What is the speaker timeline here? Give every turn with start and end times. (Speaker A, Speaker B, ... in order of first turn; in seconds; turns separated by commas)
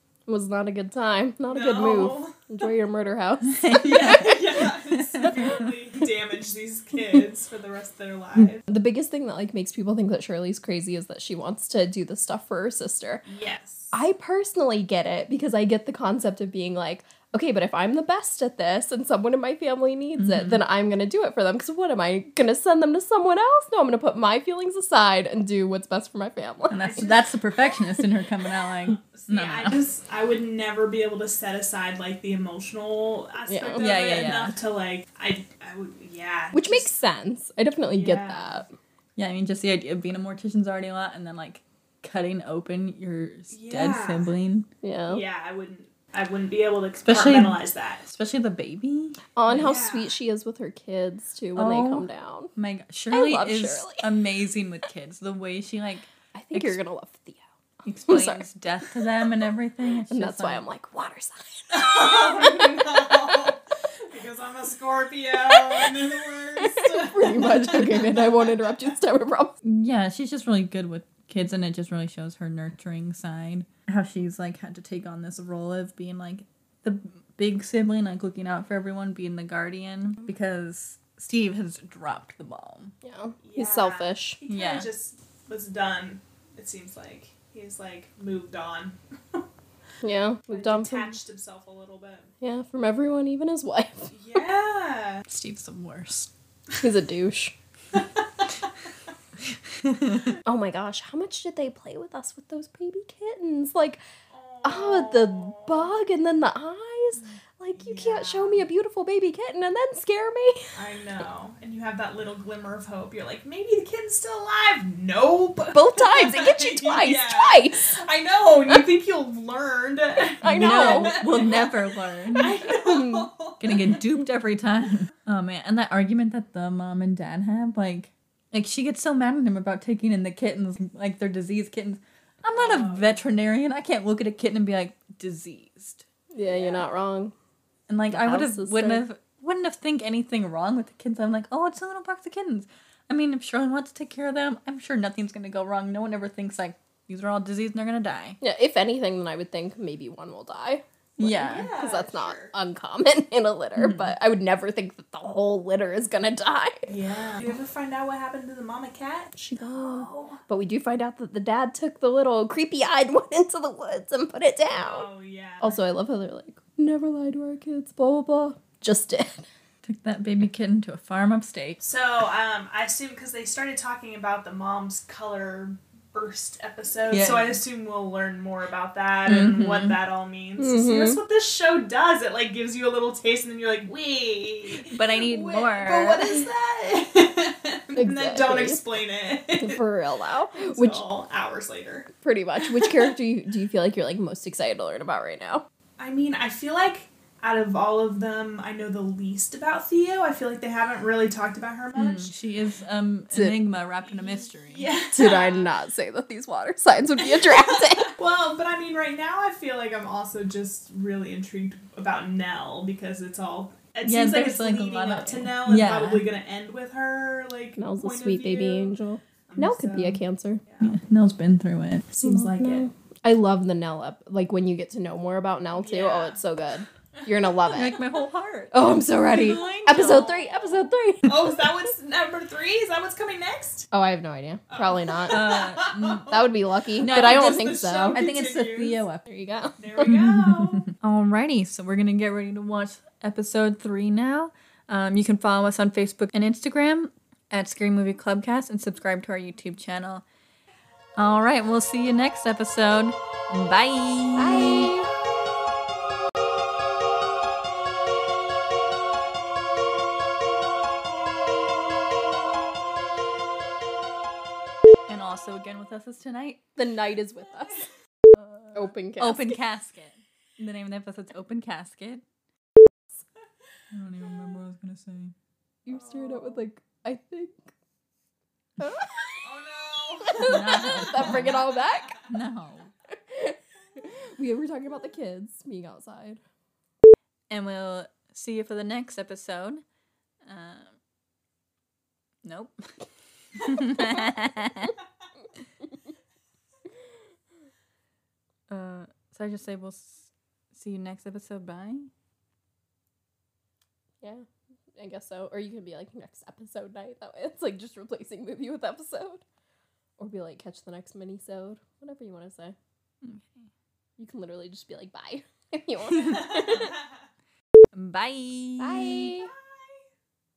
Speaker A: 0.3-4.3, Speaker B: 1.4-2.4, Speaker C: 3.4-5.7, Speaker B: 3.9-8.7, Speaker A: 8.7-13.2, Speaker B: 13.2-14.0, Speaker A: 13.9-27.1, Speaker C: 20.2-20.6, Speaker C: 26.7-29.8, Speaker B: 26.7-27.2, Speaker B: 28.9-36.9, Speaker A: 33.5-33.8, Speaker C: 33.8-34.5, Speaker A: 36.5-38.7, Speaker B: 37.9-38.6, Speaker C: 39.1-44.7, Speaker B: 43.5-44.3, Speaker A: 44.8-45.2, Speaker B: 45.1-48.0, Speaker C: 47.0-49.7, Speaker A: 49.4-52.5, Speaker B: 49.5-50.1, Speaker C: 51.5-56.8, Speaker A: 53.1-54.1, Speaker A: 56.3-57.5, Speaker C: 57.8-60.6, Speaker A: 58.0-58.5, Speaker A: 60.1-62.8, Speaker B: 61.7-68.8, Speaker A: 65.5-65.9, Speaker A: 66.6-69.5, Speaker C: 69.6-82.9, Speaker A: 83.0-84.4, Speaker B: 83.4-89.4, Speaker C: 84.5-84.9, Speaker A: 90.0-91.2, Speaker B: 90.5-92.3, Speaker A: 92.4-94.1, Speaker B: 94.1-95.2, Speaker C: 95.3-96.3, Speaker A: 96.8-97.5, Speaker B: 97.9-98.2, Speaker C: 99.8-100.3, Speaker A: 100.4-104.0, Speaker B: 104.3-106.0, Speaker A: 104.6-110.7, Speaker B: 107.8-108.7, Speaker B: 110.7-121.8, Speaker A: 115.7-117.9, Speaker A: 120.4-121.5, Speaker C: 120.4-122.6, Speaker A: 122.3-123.3, Speaker B: 122.4-124.0, Speaker C: 123.6-136.0, Speaker B: 132.5-133.2, Speaker A: 136.3-137.3, Speaker B: 136.5-136.8, Speaker C: 137.9-148.4, Speaker A: 138.1-139.0, Speaker A: 148.4-156.9, Speaker C: 151.2-151.7, Speaker B: 151.4-152.5, Speaker C: 153.8-154.1, Speaker B: 156.9-159.3, Speaker A: 159.4-165.1, Speaker C: 159.9-160.3, Speaker B: 164.7-165.8, Speaker A: 165.6-169.5, Speaker C: 169.8-171.8, Speaker B: 171.8-189.8, Speaker C: 177.1-177.6, Speaker C: 179.2-179.9, Speaker A: 180.6-181.2, Speaker C: 184.8-186.3, Speaker A: 187.9-188.8, Speaker A: 189.6-191.1, Speaker B: 190.5-192.1, Speaker A: 192.2-195.6, Speaker B: 192.6-193.1, Speaker B: 196.0-202.3, Speaker C: 201.9-204.9, Speaker A: 203.3-203.6, Speaker B: 204.1-205.7, Speaker A: 205.1-208.2, Speaker B: 207.4-219.0, Speaker C: 214.0-216.3, Speaker A: 217.8-220.6, Speaker B: 219.5-220.9, Speaker C: 220.8-222.1, Speaker B: 222.1-222.8, Speaker A: 222.2-228.0, Speaker B: 225.8-226.4, Speaker C: 227.7-230.3, Speaker A: 228.7-231.3, Speaker B: 229.3-233.9, Speaker A: 233.9-235.4, Speaker B: 234.7-236.5, Speaker C: 235.3-236.4, Speaker A: 236.3-238.2, Speaker C: 237.0-239.2, Speaker B: 237.0-239.0, Speaker A: 239.2-239.8, Speaker B: 239.8-240.9, Speaker C: 240.0-250.2, Speaker C: 251.2-255.0, Speaker A: 254.4-255.1, Speaker C: 265.1-266.6, Speaker A: 266.8-267.9, Speaker A: 268.7-269.6, Speaker C: 269.2-272.2, Speaker C: 273.9-275.3, Speaker A: 275.9-277.7, Speaker B: 275.9-276.6, Speaker A: 278.8-279.5, Speaker B: 279.4-282.2, Speaker A: 280.2-282.2, Speaker C: 280.4-281.6, Speaker C: 282.3-282.9, Speaker A: 283.1-286.4, Speaker C: 287.5-289.8, Speaker C: 290.4-290.9, Speaker C: 292.4-292.8, Speaker C: 293.6-294.9, Speaker C: 298.7-302.1, Speaker A: 304.2-309.4, Speaker A: 310.2-312.8, Speaker C: 313.2-313.7, Speaker A: 314.2-317.0, Speaker C: 316.1-316.6, Speaker B: 316.5-317.0, Speaker C: 317.9-319.3, Speaker A: 318.8-319.5, Speaker B: 319.3-320.0